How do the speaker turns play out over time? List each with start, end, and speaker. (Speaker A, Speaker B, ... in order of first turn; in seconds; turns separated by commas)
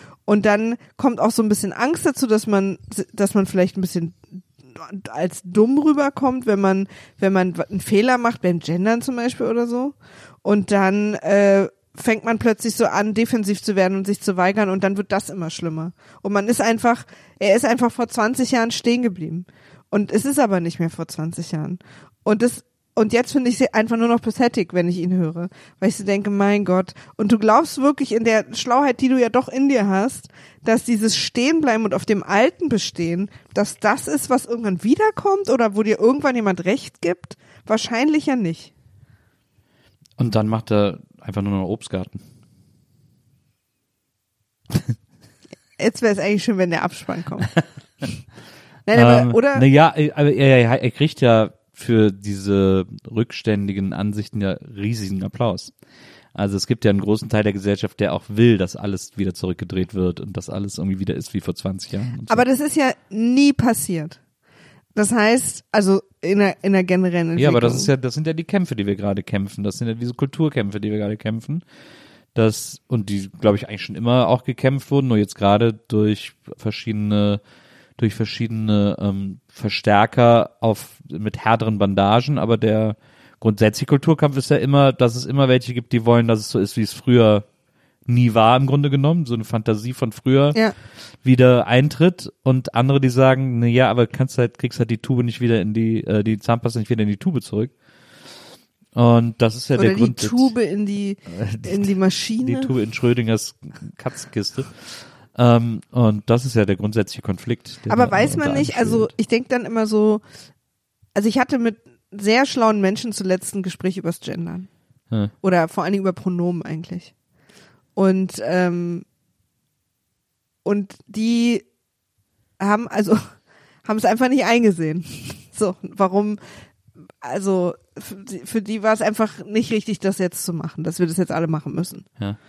Speaker A: 0.3-38.7, Speaker B: 40.2-42.2, Speaker A: 45.8-47.5, Speaker A: 48.9-49.6, Speaker B: 48.9-55.7, Speaker B: 56.4-62.5, Speaker A: 62.3-64.2, Speaker A: 65.0-67.9, Speaker B: 67.4-71.6, Speaker B: 72.3-77.4, Speaker B: 78.0-87.5, Speaker B: 88.1-90.6, Speaker B: 91.2-97.7, Speaker B: 99.0-100.5, Speaker A: 99.8-102.7, Speaker B: 101.3-101.9, Speaker B: 102.4-109.1, Speaker A: 107.9-110.2, Speaker A: 111.2-114.7, Speaker A: 115.4-117.1, Speaker A: 118.0-119.1, Speaker A: 120.7-121.7, Speaker A: 122.6-123.3, Speaker A: 123.8-126.6, Speaker A: 127.2-132.1